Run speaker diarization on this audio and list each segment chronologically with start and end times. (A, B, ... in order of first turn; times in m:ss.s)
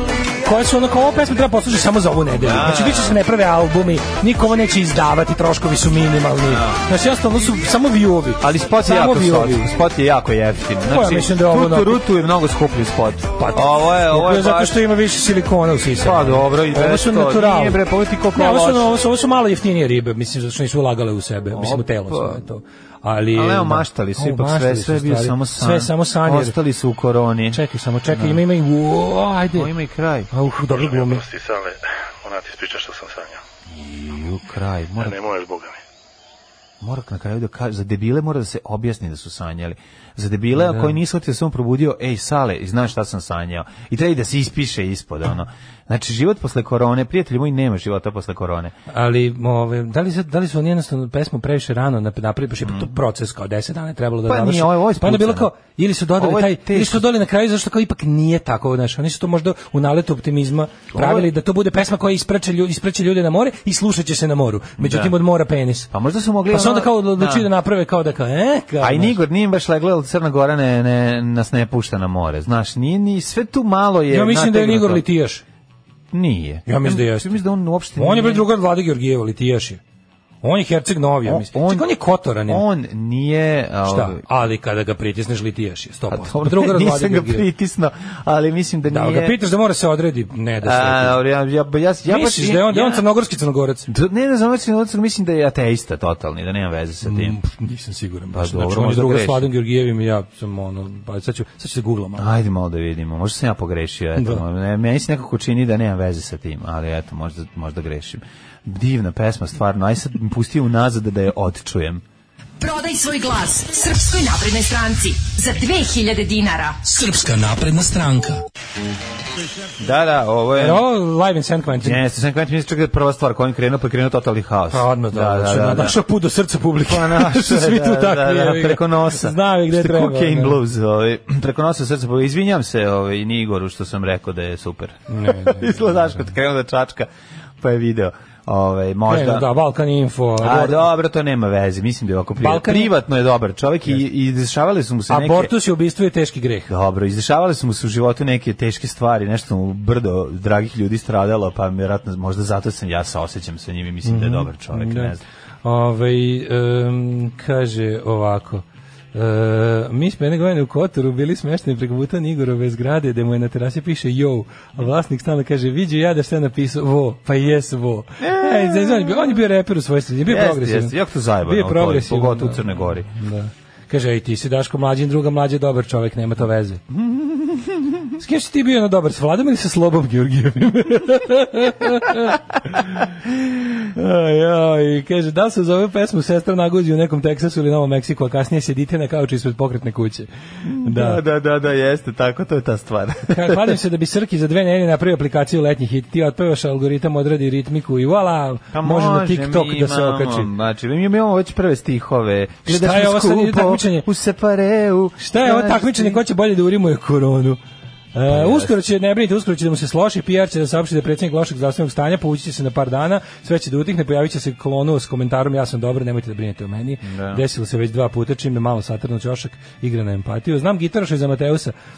0:00.4-0:09.7 A
0:02.4-0:03.2 B
0:06.5-0:06.8 B
0:08.4-0:14.8 B
0:10.9-0:12.0 A
0:13.4-0:17.8 A
0:16.0-0:18.9 B
0:18.3-0:26.6 A
0:21.5-0:22.4 B
0:23.3-0:28.4 B
0:27.5-0:29.7 A
0:29.5-0:30.3 B
0:30.3-0:31.2 A
0:30.5-0:33.4 C
0:33.7-0:35.2 B
0:35.0-0:35.8 C
0:36.8-0:48.7 B
0:40.6-0:41.0 A
0:48.9-1:05.9 A
0:52.6-0:52.9 B
0:54.3-0:55.5 B
0:56.2-0:57.0 B
1:00.9-1:01.3 B
1:04.8-1:05.2 B
1:05.9-1:07.5 B
1:06.5-1:09.2 A
1:08.8-1:15.0 B
1:14.1-1:15.4 A
1:16.1-1:18.4 B
1:16.6-1:17.4 A
1:18.0-1:19.8 A
1:20.4-1:22.6 A
1:21.2-1:24.2 B
1:23.8-1:27.5 A
1:26.1-1:29.4 B
1:28.9-1:31.2 A
1:30.6-1:33.0 B
1:32.1-1:33.9 A
1:33.9-1:37.4 B
1:37.0-1:42.3 A
1:38.3-1:39.5 B
1:42.2-1:52.0 B
1:44.2-1:44.4 A
1:52.6-1:56.8 D
1:56.8-1:58.4 A
1:59.8-2:00.8 B
2:00.6-2:02.1 A
2:01.8-2:06.0 B
2:04.7-2:10.6 A
2:06.8-2:17.1 B
2:15.1-2:16.3 A
2:17.6-2:19.5 B
2:19.1-2:20.8 A
2:20.4-2:25.5 B
2:22.4-2:22.9 A
2:25.1-2:26.7 A
2:26.7-2:35.2 B
2:34.0-2:56.8 A
2:48.2-2:49.4 B
2:50.3-2:53.1 B
2:56.9-2:58.1 B
2:58.2-3:03.1 A
3:03.9-3:11.2 A
3:10.6-3:13.8 B
3:13.3-3:20.5 A
3:18.7-3:26.2 B
3:22.6-3:24.1 A
3:25.2-3:27.6 A
3:28.1-3:41.7 A
3:28.3-3:28.7 B
3:37.0-3:37.4 B